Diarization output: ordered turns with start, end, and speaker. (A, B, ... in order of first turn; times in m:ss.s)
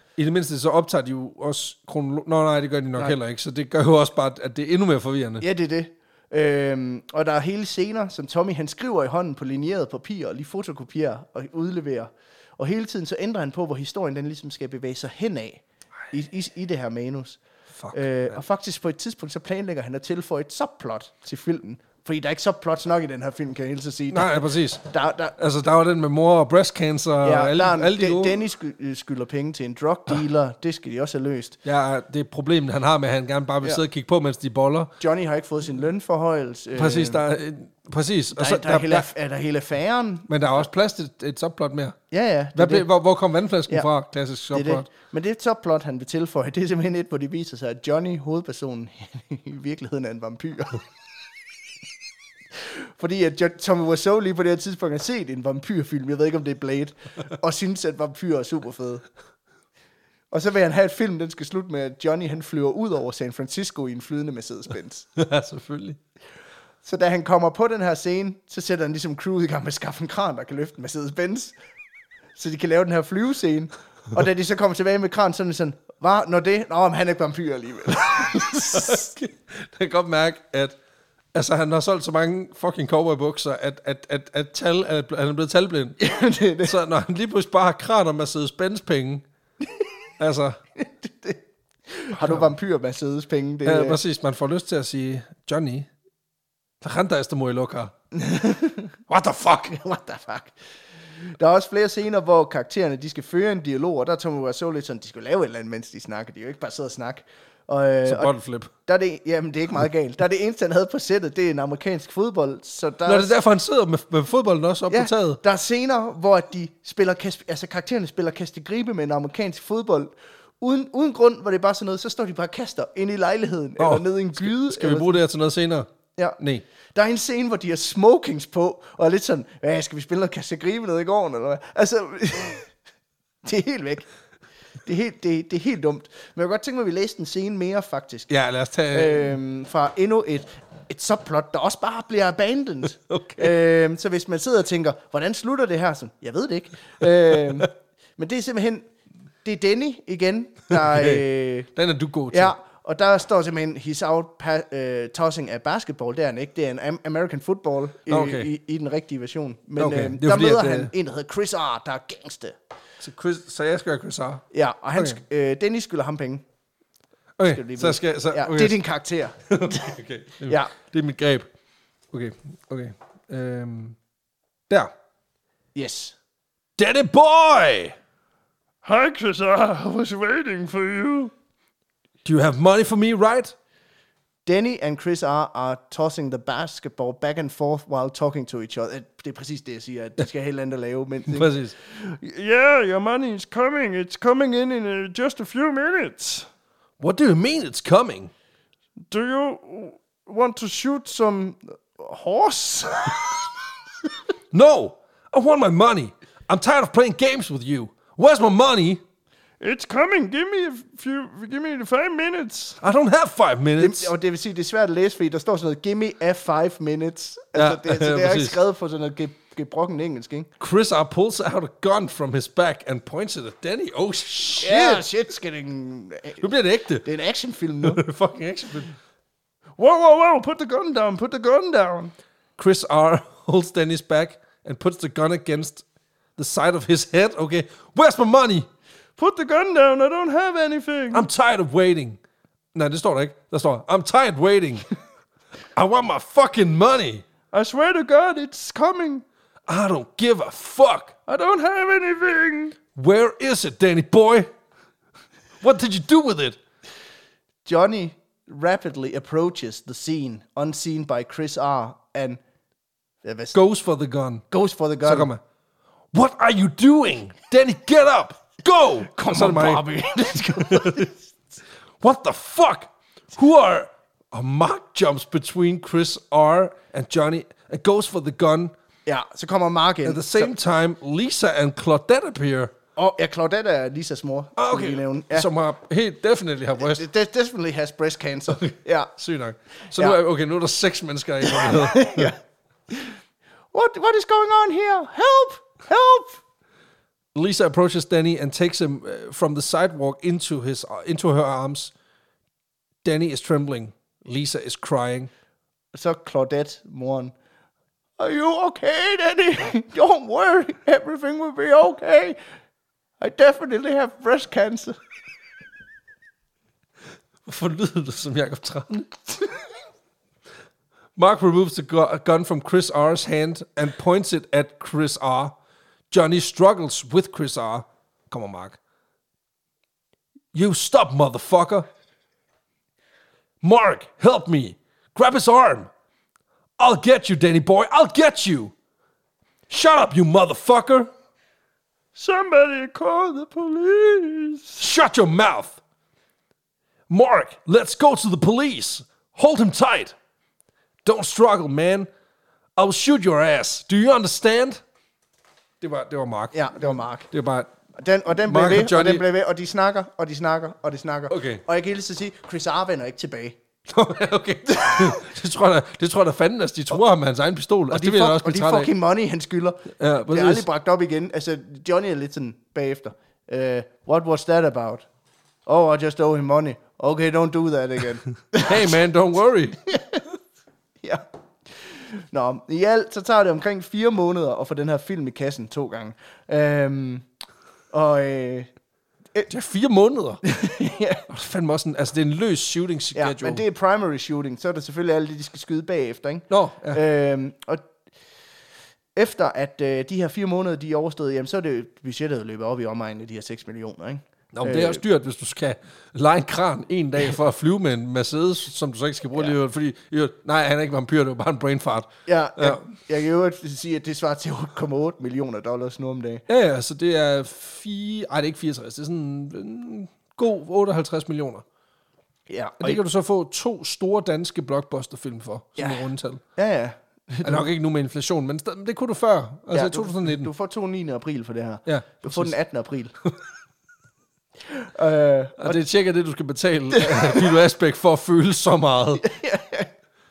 0:00.2-0:05.4 A
0:05.4-0:17.4 B
0:17.8-0:18.4 A
0:17.9-0:25.4 B
0:24.1-0:24.8 A
0:25.4-0:28.4 A
0:27.2-0:31.6 B
0:31.6-0:34.9 A
0:35.0-0:37.2 B
0:36.8-0:39.1 A
0:38.3-0:40.3 B
0:40.3-0:42.0 A
0:42.1-0:42.9 B
0:42.6-0:44.9 A
0:44.5-0:50.8 B
0:52.6-0:59.0 B
1:00.3-1:05.1 B
1:05.2-1:06.0 A
1:06.8-1:11.6 B
1:12.4-1:19.0 B
1:18.5-1:20.8 A
1:21.3-1:26.0 A
1:26.0-1:26.7 B
1:26.6-1:29.2 A
1:30.2-1:30.6 A
1:30.8-1:34.0 B
1:32.2-1:32.5 A
1:33.6-1:35.9 A
1:36.8-1:37.9 A
1:38.1-1:38.9 B
1:39.1-1:39.8 A
1:39.7-1:40.6 B
1:41.2-1:48.3 B
1:48.0-1:48.7 A
1:48.8-1:53.3 B
1:53.1-1:55.4 A
1:54.9-2:05.2 B
2:03.8-2:05.9 A
2:06.4-2:06.6 A
2:06.9-2:12.7 B
2:13.4-2:14.1 B
2:14.8-2:18.3 B
2:18.3-2:19.4 A
2:18.9-2:28.9 B
2:23.0-2:23.6 A
2:27.0-2:27.6 A
2:29.4-2:31.7 B
2:30.7-2:32.5 A
2:32.3-2:42.6 B
2:38.1-2:38.5 A
2:39.8-2:40.9 A
2:43.0-2:44.4 A
2:44.5-2:46.4 B
2:47.4-2:48.8 A
2:47.4-2:49.8 B
2:49.5-2:51.5 A
2:50.5-2:50.7 B
2:52.1-2:54.0 A
2:55.8-2:56.2 B
2:56.8-2:58.0 A
2:58.8-3:01.3 C
3:02.2-3:03.5 A
3:04.5-3:11.5 B
3:11.3-3:11.8 A
3:11.8-3:16.5 C
3:17.0-3:18.3 A
3:19.1-3:23.2 C
3:24.5-3:29.0 A
3:29.6-3:32.8 C
3:32.8-3:34.1 A
3:33.8-3:40.5 B
3:37.5-3:38.6 A
3:40.6-3:45.0 A
3:44.6-3:46.5 B
3:46.4-3:47.1 A
3:47.0-3:48.0 B
3:47.8-3:48.9 A
3:49.8-3:52.0 C
3:52.6-3:55.8 A
3:56.4-3:58.7 A
3:59.2-4:01.2 C
4:01.1-4:02.2 A
4:02.7-4:04.9 A
4:05.8-4:07.2 A
4:07.5-4:09.2 C
4:09.7-4:11.1 A
4:11.3-4:12.8 C
4:13.0-4:14.5 A
4:15.6-4:16.6 A
4:17.6-4:22.4 B
4:23.2-4:23.6 B
4:23.5-4:24.4 A
4:24.5-4:25.3 B
4:25.0-4:25.4 A
4:26.1-4:29.8 A
4:29.1-4:31.1 B
4:30.7-4:31.1 A
4:32.0-4:38.7 A
4:39.1-4:40.5 B
4:40.0-4:42.8 A
4:43.0-4:45.5 B
4:44.6-4:47.1 A
4:46.8-4:49.1 B
4:48.5-4:52.3 A
4:51.5-4:52.4 B
4:52.9-4:53.2 B
4:53.7-4:56.4 B
4:57.3-5:01.9 A
5:03.0-5:05.3 A
5:05.9-5:07.3 B
5:08.2-5:12.4 B
5:13.2-5:15.0 B
5:17.5-5:19.5 A
5:21.2-5:25.6 A
5:26.1-5:28.8 A
5:30.5-5:31.9 A
5:33.6-5:35.9 A
5:36.8-5:38.7 A
5:39.7-5:41.1 A
5:42.2-5:44.8 C
5:44.8-5:45.8 A
5:47.1-5:50.2 A
5:51.0-5:52.1 A
5:52.8-5:54.8 A
5:55.8-5:57.7 A
5:56.5-5:57.3 B
5:58.0-6:03.6 B
5:58.4-5:59.3 A
6:01.3-6:01.6 A
6:03.9-6:08.9 A
6:07.9-6:15.1 B
6:10.0-6:10.7 A
6:15.7-6:19.0 B
6:18.6-6:19.8 A
6:19.9-6:20.2 B
6:21.0-6:27.3 B
6:27.9-6:28.7 B
6:29.5-6:30.4 A
6:30.4-6:31.2 B
6:31.3-6:33.6 A
6:33.2-6:37.9 B
6:36.5-6:37.0 A
6:39.2-6:45.0 B
6:44.5-6:52.8 A
6:52.3-6:56.4 B
6:56.5-7:01.6 A
7:02.5-7:03.0 B
7:02.8-7:06.4 A
7:05.8-7:07.7 B
7:07.4-7:10.5 A
7:09.7-7:13.1 B
7:11.9-7:12.6 A
7:14.7-7:15.8 B
7:15.6-7:19.3 A
7:17.0-7:17.4 B
7:19.2-7:19.9 B